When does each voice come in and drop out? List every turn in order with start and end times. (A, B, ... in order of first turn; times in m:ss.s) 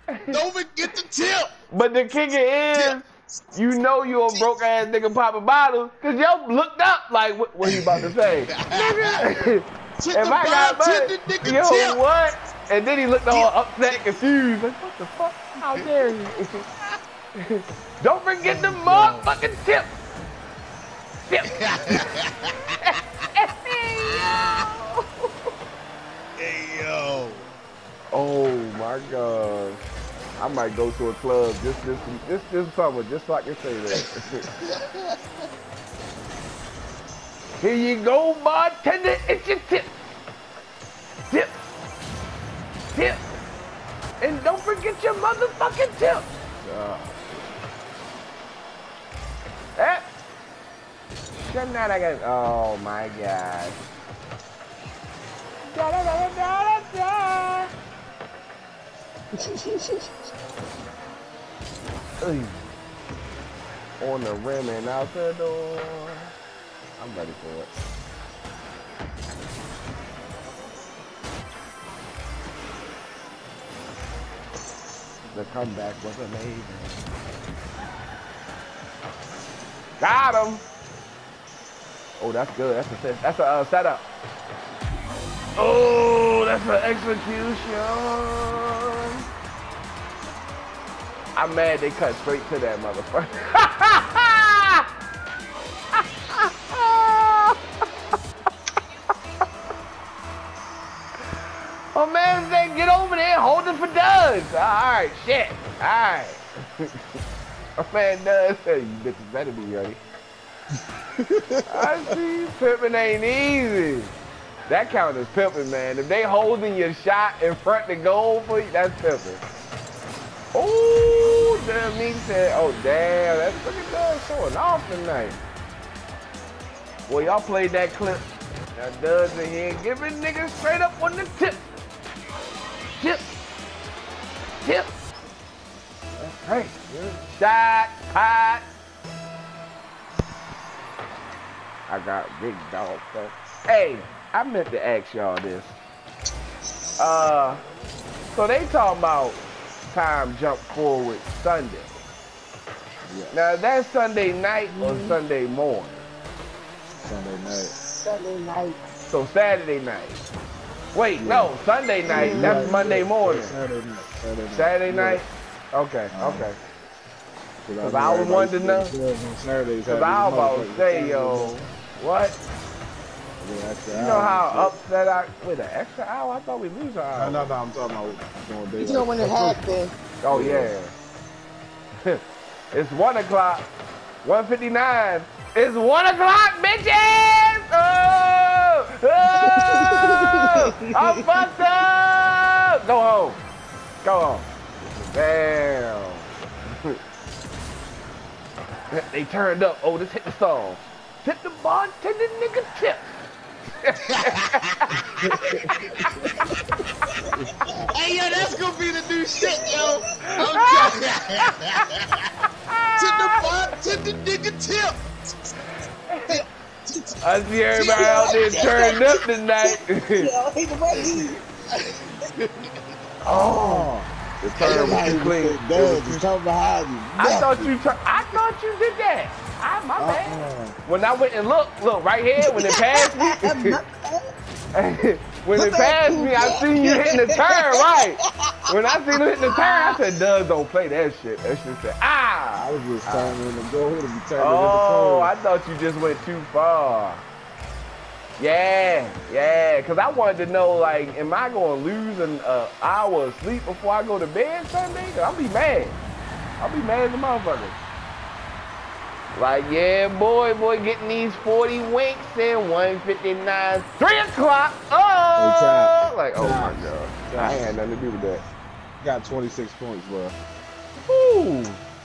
0:00.1-0:00.4 A
0:00.3-0:01.5 B
0:01.7-0:16.7 A
0:02.7-0:03.0 B
0:07.6-0:12.0 B
0:13.3-0:14.1 B
0:17.4-0:19.9 A
0:18.4-0:19.3 B
0:21.3-0:22.0 A
0:21.5-0:22.5 B
0:23.4-0:25.3 A
0:26.4-0:27.5 B
0:28.1-0:29.8 A
0:30.4-0:34.5 A
0:34.6-0:34.9 B
0:37.6-0:39.9 A
0:41.3-0:41.5 A
0:42.9-0:43.3 A
0:44.2-0:47.5 A
0:49.8-0:50.0 A
0:51.4-0:53.8 A
0:55.6-0:57.7 A
0:59.4-1:00.0 C
1:02.2-1:02.6 A
1:04.0-1:06.3 A
1:07.0-1:07.7 A
1:15.3-1:17.0 A
1:20.0-1:20.6 A
1:22.2-1:24.1 A
1:25.6-1:29.2 A
1:31.3-1:34.9 A
1:35.9-1:37.6 A
1:41.9-1:46.9 A
1:47.8-1:50.0 A
1:51.2-1:52.1 D
1:51.7-1:54.1 A
1:54.7-1:59.4 A
2:00.5-2:05.4 A
2:07.1-2:11.6 A
2:13.0-2:13.3 A
2:14.6-2:14.9 A
2:16.2-2:18.6 A
2:21.9-2:25.8 A
2:27.0-2:27.6 A
2:28.3-2:32.0 A
2:33.0-2:33.4 D
2:33.3-2:36.0 A
2:34.7-2:35.2 C
2:37.0-2:37.7 D
2:37.8-2:38.8 C
2:39.0-2:40.2 A
2:40.9-2:43.6 A
2:41.2-2:41.5 D
2:42.1-2:42.8 C
2:42.1-2:45.2 D
2:44.5-2:46.6 A
2:46.1-2:46.5 D
2:47.6-2:51.6 D
2:47.8-2:48.9 A
2:49.8-2:52.4 A
2:53.4-2:54.8 D
2:53.9-2:57.5 A
2:57.1-2:59.6 D
2:58.8-2:59.9 C
3:00.2-3:00.9 A
3:00.3-3:00.7 D
3:02.7-3:03.7 A
3:04.2-3:13.4 A
3:09.3-3:10.7 C
3:14.0-3:17.0 A
3:18.9-3:23.1 A
3:23.8-3:24.9 A
3:24.1-3:24.7 B
3:25.2-3:26.2 D
3:27.4-3:27.8 D
3:27.8-3:32.1 B
3:29.4-3:30.0 C
3:30.5-3:31.8 A
3:32.7-3:33.3 A
3:33.0-3:35.0 B
3:36.1-3:36.4 A
3:36.3-3:38.3 B
3:37.2-3:40.3 A
3:37.8-3:41.4 C
3:40.9-3:42.7 B
3:43.2-3:46.3 A
3:43.3-3:47.7 D
3:47.2-3:53.8 A
3:50.0-3:50.7 D
3:52.4-3:54.3 C
3:54.7-4:03.4 A
3:55.5-3:58.1 C
3:59.4-4:00.0 C
4:02.6-4:05.3 D
4:04.4-4:07.2 A
4:08.4-4:16.0 A
4:16.6-4:17.8 A
4:19.3-4:28.4 A
4:25.4-4:27.7 D
4:29.0-4:30.4 D
4:31.0-4:31.8 A